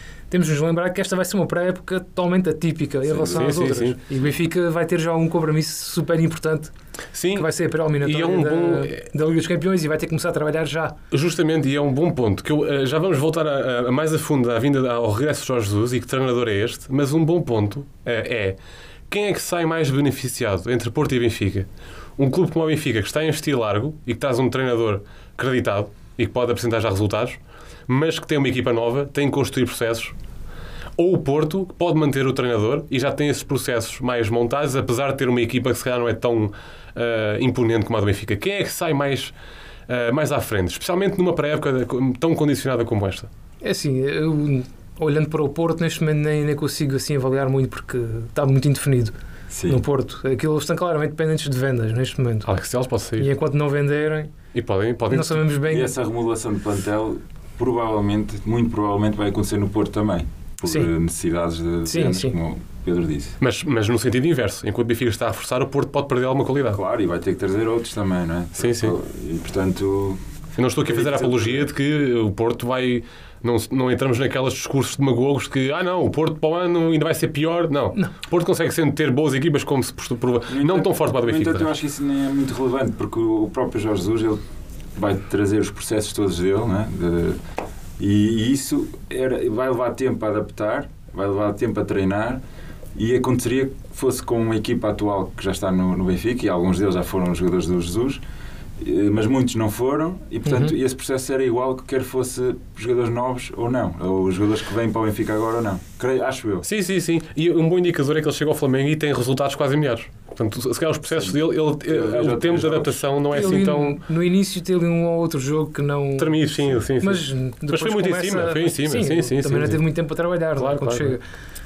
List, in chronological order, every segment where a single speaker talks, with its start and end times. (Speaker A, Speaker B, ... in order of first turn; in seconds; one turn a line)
Speaker A: 0.3-6.7
Speaker B: 3.1-3.4
Speaker C: 3.2-4.0
Speaker C: 7.1-9.1
Speaker A: 7.3-11.0
Speaker C: 11.1-18.6
Speaker C: 19.1-30.1
Speaker C: 31.0-39.3
Speaker C: 39.9-43.3
Speaker A: 43.6-49.1
Speaker B: 49.5-49.8
Speaker A: 49.7-52.5
Speaker C: 52.5-53.3
Speaker A: 53.2-54.3
Speaker C: 54.5-55.5
Speaker A: 55.1-55.9
Speaker B: 55.6-63.4
Speaker A: 61.9-62.3
Speaker C: 63.4-66.8
Speaker B: 66.7-70.2
Speaker C: 68.6-69.0
Speaker C: 70.6-81.7
Speaker B: 70.8-71.7
Speaker B: 80.5-84.4
Speaker B: 85.0-87.4
Speaker B: 88.0-92.4
Speaker B: 93.0-98.2
Speaker B: 98.8-106.7
Speaker A: 100.5-100.7
Speaker C: 106.7-114.0
Speaker B: 111.1-113.0
Speaker A: 113.3-116.4
Speaker C: 116.2-119.8
Speaker A: 117.0-121.2
Speaker C: 120.6-121.2